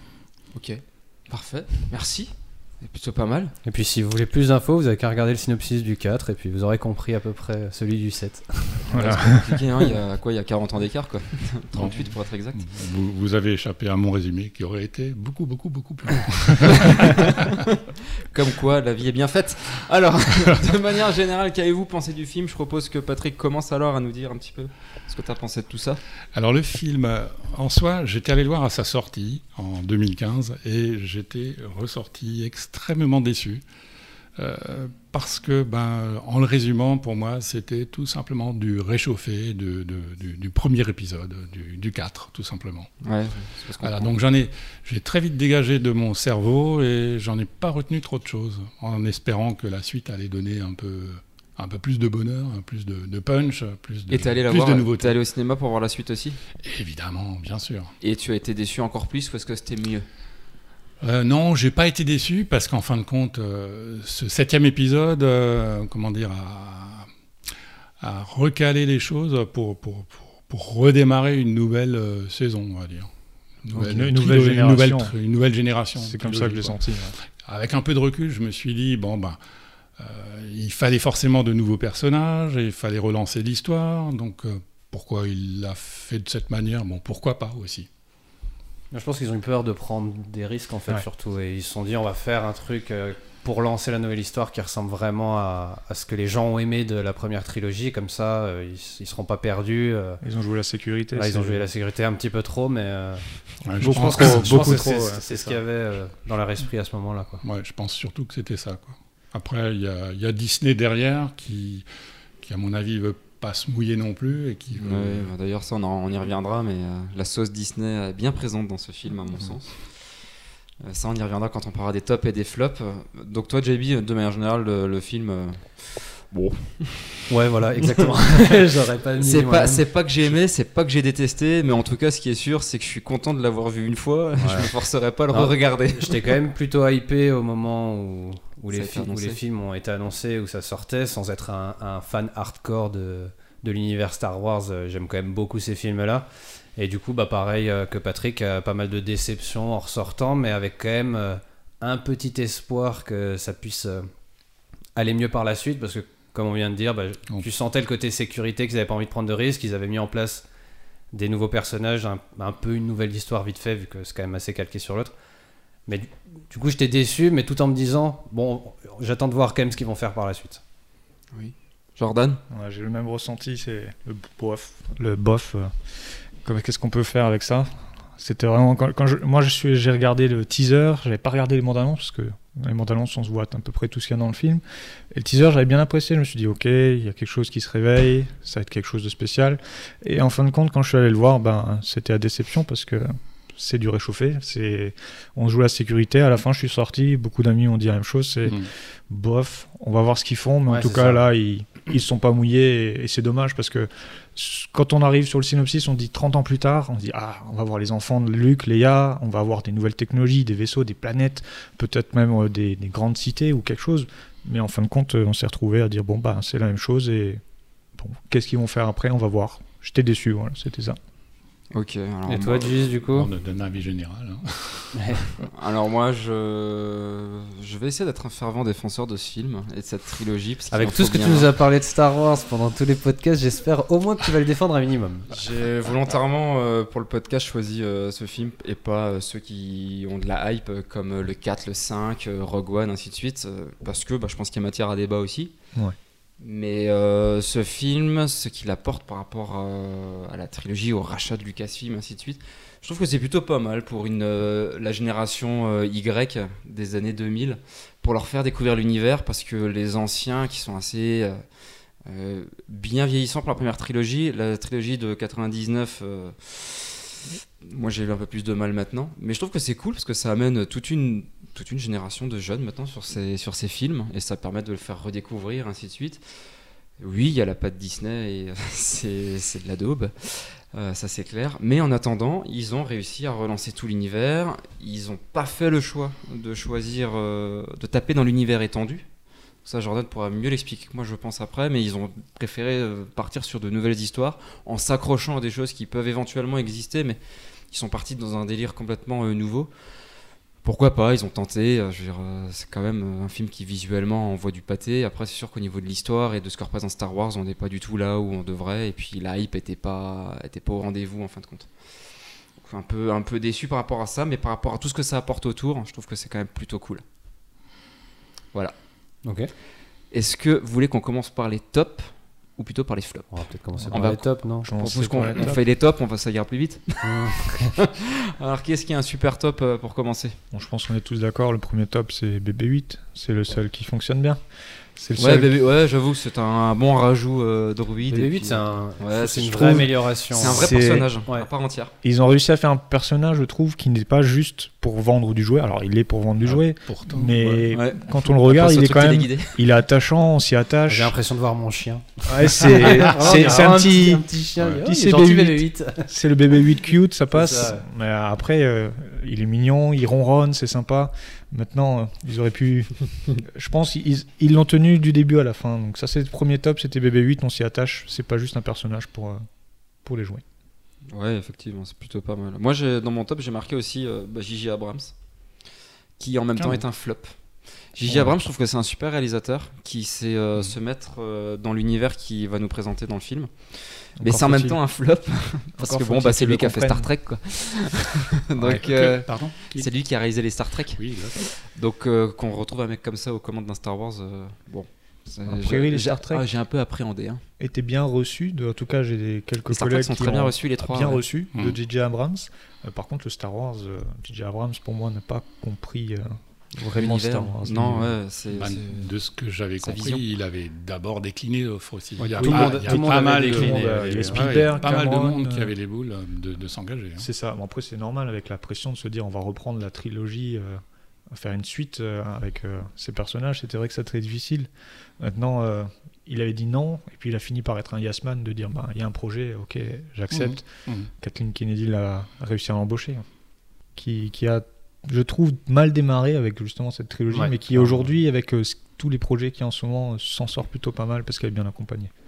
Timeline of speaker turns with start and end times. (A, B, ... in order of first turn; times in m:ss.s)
0:00.5-0:03.5 A
0:03.6-0:08.8 B
0:08.8-0:12.6 A
0:08.9-0:09.6 C
0:11.7-0:17.6 D
0:16.7-0:26.0 A
0:26.3-0:33.6 D
0:34.4-0:42.9 D
0:43.0-0:44.1 A
0:43.8-0:55.2 D
0:54.1-0:56.4 A
0:56.6-0:57.9 D
0:58.0-1:00.0 A
1:01.0-1:07.1 D
1:08.0-1:13.1 D
1:13.6-1:16.7 D
1:13.7-1:15.1 C
1:16.0-1:17.2 C
1:17.4-1:19.4 D
1:20.0-1:27.9 D
1:28.9-1:40.2 B
1:40.2-1:41.6 C
1:41.1-1:43.2 B
1:43.6-1:44.9 D
1:43.8-1:45.6 C
1:43.8-1:47.4 B
1:47.4-1:51.8 D
1:52.4-1:55.3 D
1:54.8-1:59.8 A
2:00.8-2:07.3 A
2:07.3-2:09.8 B
2:09.2-2:16.3 A
2:14.4-2:14.7 B
2:15.3-2:34.1 B
2:18.7-2:19.4 A
2:35.0-2:40.4 B
2:41.1-2:45.1 B
2:45.9-2:50.6 B
2:51.3-2:52.4 A
2:52.5-2:55.7 C
2:56.4-3:37.4 C
3:20.7-3:21.2 B
3:38.0-3:41.0 C
3:41.7-3:42.9 A
3:42.3-3:43.3 B
3:43.0-3:45.5 D
3:44.9-3:45.2 B
3:45.5-3:51.5 A
3:50.7-3:55.3 B
3:55.3-4:05.5 A
4:06.4-4:21.4 A
4:22.0-4:36.2 A
4:37.0-4:49.0 A
4:49.6-4:57.2 A
4:57.7-4:59.7 A
5:00.6-5:11.7 A
5:12.6-5:17.0 A
5:19.2-5:19.5 B
5:20.1-5:30.4 A
5:23.3-5:25.4 B
5:24.6-5:25.6 C
5:27.0-5:27.7 B
5:30.5-5:34.4 C
5:35.0-5:35.5 C
5:35.2-5:41.9 A
5:38.1-5:40.7 B
5:39.5-5:41.1 C
5:42.0-5:51.1 C
5:46.4-5:47.7 D
5:47.7-5:49.6 A
5:50.9-5:56.1 B
5:52.2-5:54.3 C
5:54.8-6:09.4 C
5:57.3-5:57.8 B
6:10.0-6:10.4 C
6:11.1-6:15.1 A
6:16.2-6:17.3 A
6:17.9-6:37.4 A
6:18.0-6:18.4 C
6:24.2-6:24.8 C
6:25.8-6:27.1 C
6:28.6-6:29.9 D
6:30.9-6:31.4 D
6:35.5-6:36.4 C
6:37.6-6:48.1 C
6:39.7-6:41.2 A
6:46.9-6:49.1 A
6:48.5-6:57.3 D
6:49.8-6:50.2 A
6:52.2-6:54.7 B
6:52.4-6:55.7 C
6:57.2-7:04.7 C
7:05.2-7:10.6 C
7:10.3-7:11.1 D
7:11.2-7:13.2 C
7:14.0-7:22.1 C
7:17.3-7:18.1 B